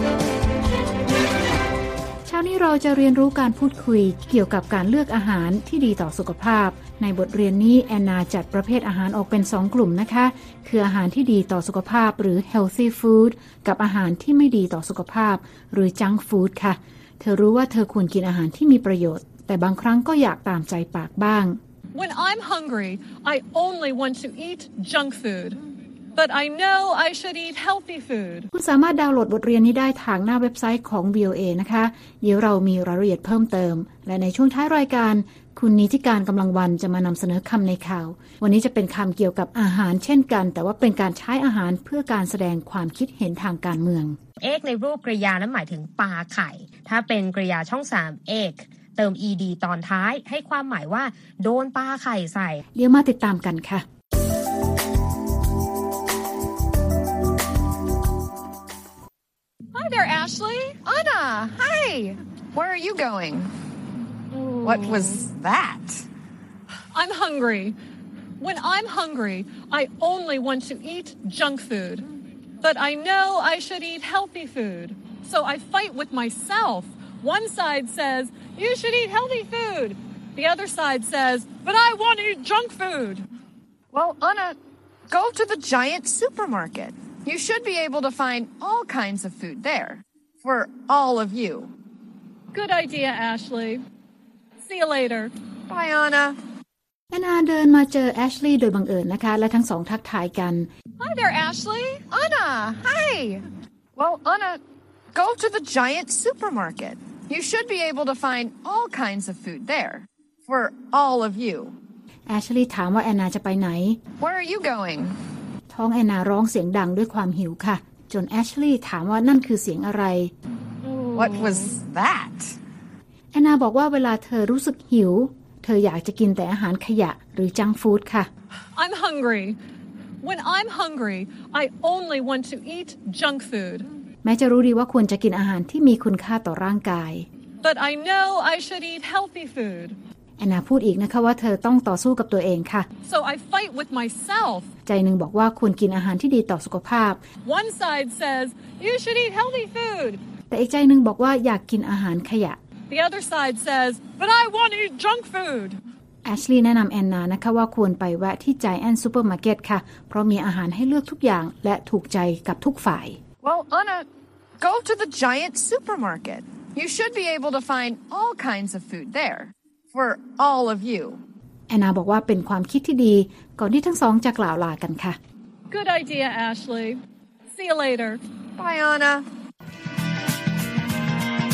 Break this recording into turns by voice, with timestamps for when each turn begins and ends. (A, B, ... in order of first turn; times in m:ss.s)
0:02.3-0:21.6 A
0:21.9-0:25.6 B
0:26.2-0:28.5 B
0:28.5-0:44.2 A
0:44.4-0:52.6 C
0:52.8-0:53.8 A
0:59.7-1:00.8 B
1:00.8-1:03.5 D
1:04.6-1:06.1 D
1:06.9-1:07.8 B
1:08.4-1:12.1 B
1:12.6-1:23.3 B
1:23.9-1:24.6 D
1:25.1-1:31.7 D
1:32.5-1:33.8 B
1:34.6-1:35.3 B
1:35.7-1:36.4 D
1:37.1-1:40.7 A
1:41.0-1:42.0 B
1:42.1-1:44.6 D
1:45.1-1:51.8 D
1:52.3-1:54.0 A
1:54.2-1:55.2 D
1:55.7-2:00.3 A
2:01.1-2:02.6 D
2:03.3-2:08.3 A
2:08.8-2:09.6 B
2:10.2-2:13.9 B
2:14.2-2:17.3 A
2:17.6-2:20.0 B
2:20.4-2:22.9 A
2:23.0-2:24.7 B
2:24.9-2:27.2 A
2:27.4-2:30.2 B
2:30.5-2:32.6 A
2:32.9-2:35.8 B
2:36.2-2:43.2 A
2:43.4-2:44.1 D
2:44.6-2:51.2 D
2:51.7-2:55.2 A
2:55.7-2:58.2 B
2:58.6-2:59.3 D